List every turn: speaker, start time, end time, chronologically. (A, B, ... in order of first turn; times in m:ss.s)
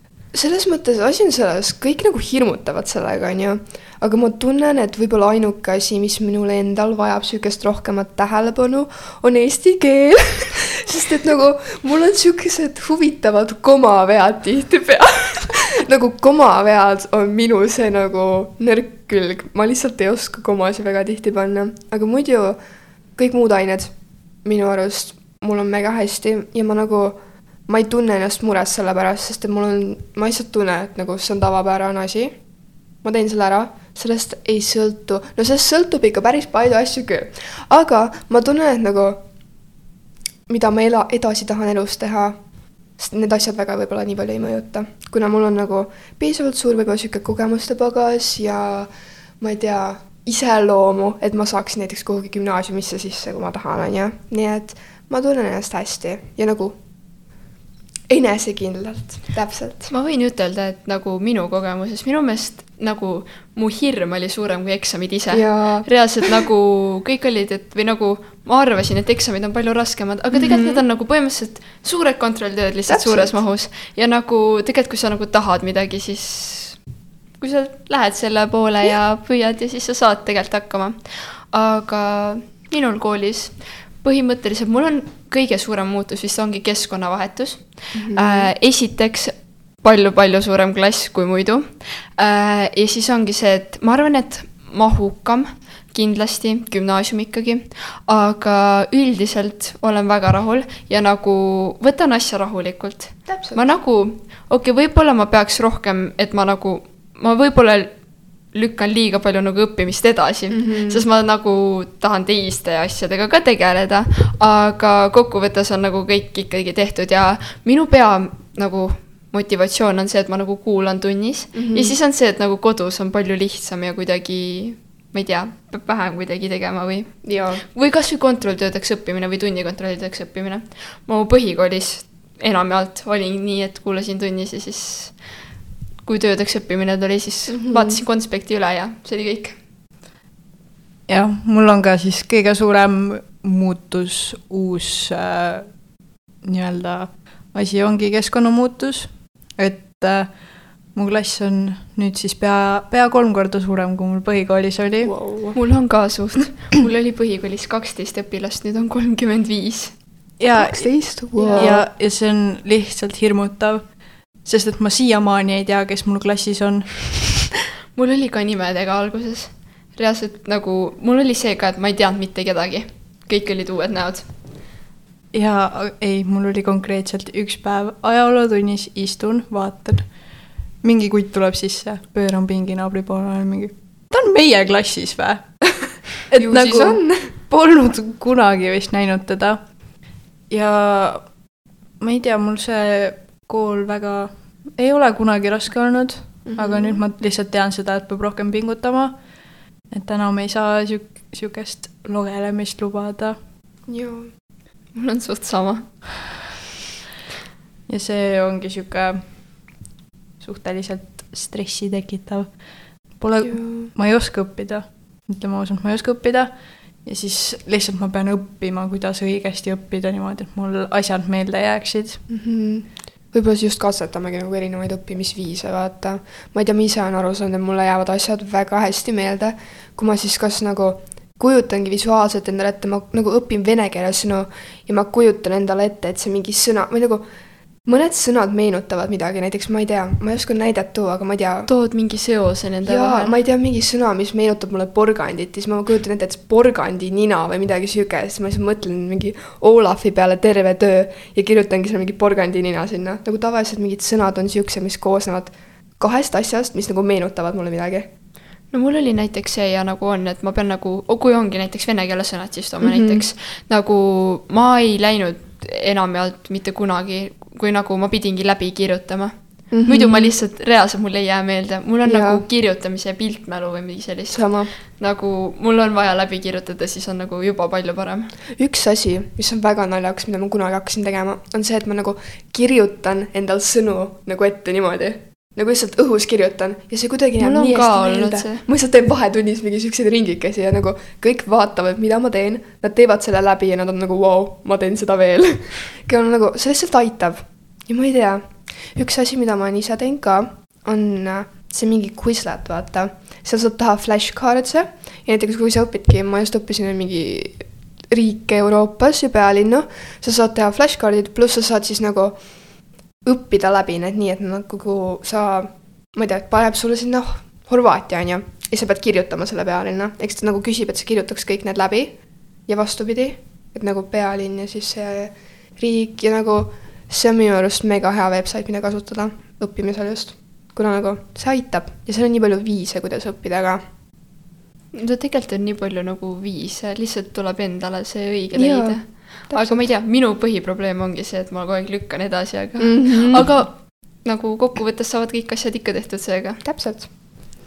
0:00.3-0:22.6 A
0:23.2-0:32.4 A
0:33.0-0:39.2 A
0:40.5-0:42.4 A
0:42.9-0:56.8 A
0:58.1-0:59.9 A
0:59.9-1:16.8 B
1:05.3-1:05.9 A
1:10.3-1:10.8 A
1:12.9-1:13.4 A
1:17.4-2:15.4 B
1:27.9-1:28.5 A
1:43.3-1:43.6 A
1:50.5-1:51.0 A
2:01.5-2:02.0 A
2:07.2-2:07.6 A
2:16.0-2:19.6 B
2:17.5-2:18.0 A
2:21.1-2:25.8 C
2:26.4-2:35.1 C
2:35.0-2:35.6 A
2:35.5-2:40.0 B
2:40.4-2:47.4 C
2:40.5-2:41.9 A
2:41.4-2:41.8 B
2:47.9-2:54.3 B
2:55.3-3:11.4 C
3:06.4-3:07.3 A
3:12.0-3:19.3 C
3:16.4-3:17.0 A
3:19.9-3:23.4 C
3:23.9-3:24.3 A
3:24.9-3:26.4 B
3:27.9-3:29.6 C
3:30.4-3:42.2 C
3:33.4-3:33.9 A
3:42.3-3:57.2 A
3:57.8-4:01.7 A
4:01.7-4:03.4 B
4:02.8-4:18.1 A
4:18.7-4:38.3 B
4:22.8-4:23.3 A
4:29.7-4:30.3 A
4:32.0-4:32.4 A
4:34.3-4:34.7 A
4:38.5-5:33.8 A
4:47.4-4:48.6 B
5:34.9-5:46.6 B
5:38.5-5:39.9 A
5:42.8-5:43.6 A
5:46.6-5:47.1 A